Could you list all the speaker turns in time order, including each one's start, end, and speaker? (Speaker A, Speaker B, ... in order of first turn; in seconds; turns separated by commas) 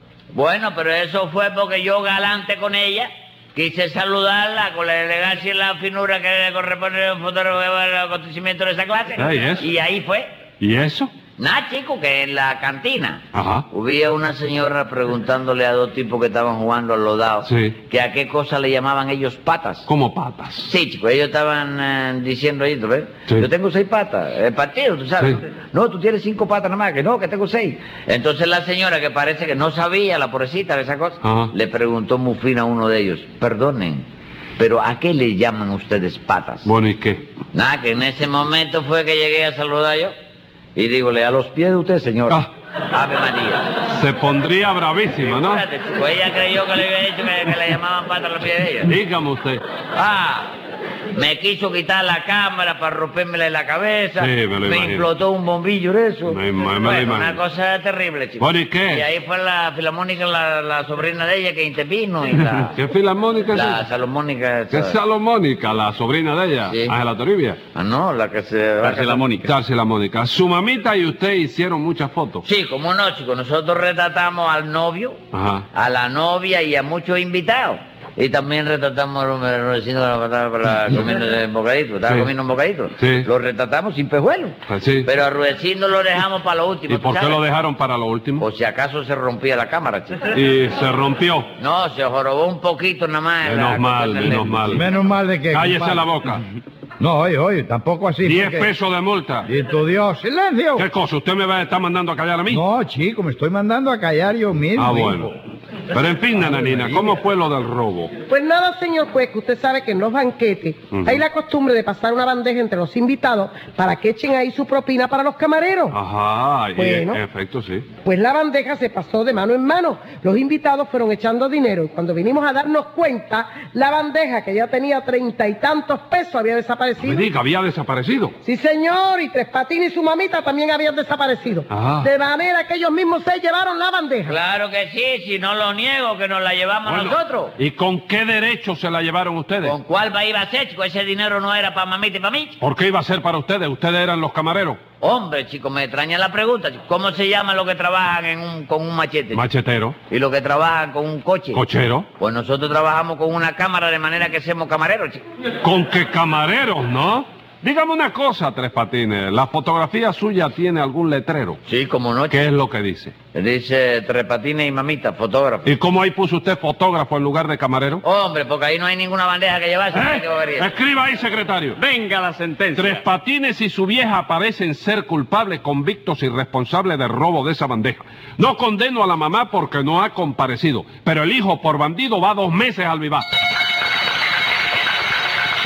Speaker A: 0.3-10.3, Speaker B: 9.2-9.7, Speaker B: 10.6-11.1, Speaker A: 11.4-19.9, Speaker B: 13.3-13.7, Speaker B: 17.4-17.8, Speaker B: 19.9-20.7, Speaker A: 20.6-34.0, Speaker B: 31.2-31.5, Speaker A: 34.6-36.7, Speaker B: 36.6-37.3, Speaker A: 37.5-40.1, Speaker A: 40.8-43.7, Speaker B: 43.9-45.7, Speaker A: 45.2-49.0, Speaker B: 48.8-49.6, Speaker A: 50.0-50.5, Speaker A: 51.1-62.8, Speaker B: 54.2-55.1, Speaker B: 56.3-57.4, Speaker B: 58.4-59.1, Speaker B: 62.8-63.8, Speaker A: 63.5-65.0, Speaker B: 64.7-67.6, Speaker A: 66.7-67.0, Speaker A: 67.7-69.3, Speaker C: 68.8-69.5, Speaker B: 69.4-72.4, Speaker A: 72.4-75.2, Speaker B: 75.3-75.7, Speaker A: 75.7-87.4, Speaker B: 82.1-82.3, Speaker B: 83.0-83.3, Speaker B: 84.7-85.1, Speaker B: 86.9-88.5, Speaker A: 88.4-90.2, Speaker B: 90.3-91.5, Speaker A: 91.6-94.8, Speaker B: 93.4-94.9, Speaker D: 94.7-96.1, Speaker B: 95.5-96.5, Speaker D: 97.0-98.7, Speaker B: 98.2-99.5, Speaker D: 99.4-100.9, Speaker B: 100.8-102.6, Speaker D: 102.5-105.3, Speaker B: 104.8-105.3, Speaker B: 105.9-108.1, Speaker E: 108.3-116.0, Speaker B: 110.9-111.2, Speaker B: 115.9-117.9, Speaker E: 116.8-117.2, Speaker E: 118.0-127.3, Speaker B: 127.0-128.3, Speaker E: 128.4-134.4, Speaker B: 131.7-132.1, Speaker A: 134.3-137.6, Speaker B: 136.8-139.8, Speaker A: 139.6-142.6, Speaker B: 142.6-144.8, Speaker A: 145.0-149.4, Speaker B: 149.3-150.0, Speaker A: 150.1-151.6, Speaker B: 151.5-152.1, Speaker A: 152.2-155.2, Speaker B: 155.6-161.6, Speaker A: 161.7-162.4, Speaker B: 162.3-163.2, Speaker A: 163.3-165.7, Speaker B: 165.6-168.0, Speaker A: 168.0-170.8, Speaker B: 169.9-171.8, Speaker C: 171.8-173.0, Speaker B: 172.8-183.3